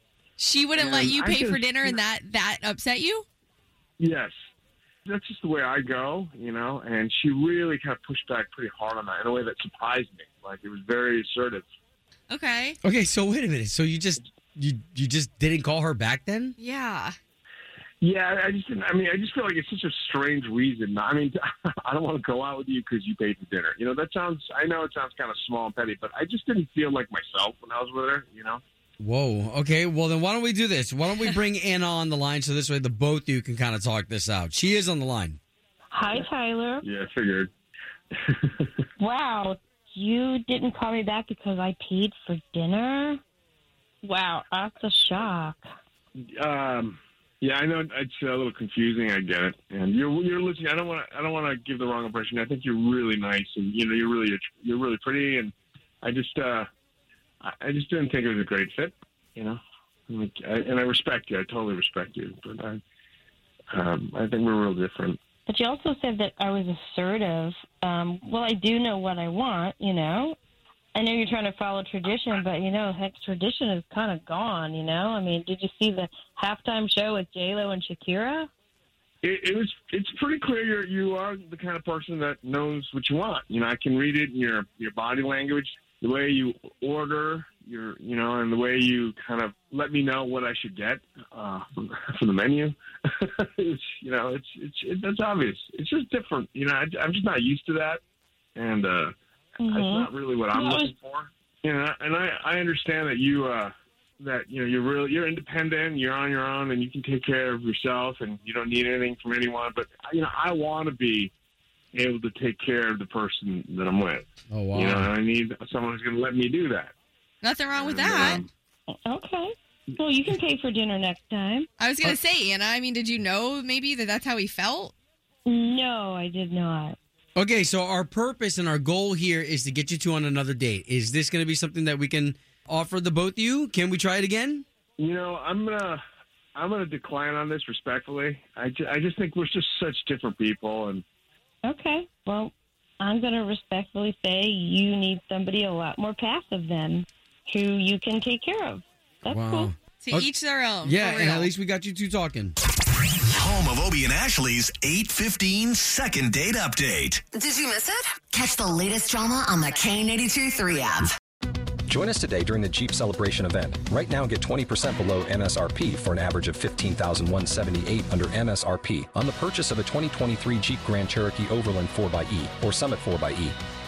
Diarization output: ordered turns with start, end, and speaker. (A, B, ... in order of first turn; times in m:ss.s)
0:00.4-0:03.2 A
0:00.8-0:02.0 B
0:04.0-0:04.3 B
0:05.1-0:11.6 B
0:12.3-0:12.8 A
0:12.8-0:16.6 C
0:16.6-0:17.2 A
0:18.0-0:28.6 B
0:29.0-0:35.4 C
0:35.9-0:36.8 D
0:36.8-0:37.5 B
0:38.2-0:38.8 B
0:39.0-0:43.2 D
0:44.0-0:45.6 D
0:46.4-0:56.7 B
0:57.4-0:59.6 B
1:00.1-1:02.8 B
1:03.7-1:05.2 B
1:05.5-1:10.4 D
1:11.0-1:18.5 D
1:19.2-1:38.0 B
1:38.6-1:51.3 B
1:39.6-1:40.9 D
1:51.9-1:56.9 B
1:54.5-1:55.1 C
1:57.4-1:58.4 A
1:57.7-1:58.5 B
1:59.0-2:01.7 D
2:01.8-2:04.9 A
2:05.5-2:07.0 D
2:07.4-2:14.6 C
2:15.0-2:16.0 B
2:16.6-2:21.0 B
2:21.6-2:29.7 D
2:29.3-2:29.7 C
2:30.0-2:31.5 A
2:30.8-2:32.5 C
2:33.3-2:37.2 E
2:37.3-2:41.2 F
2:41.9-2:53.6 G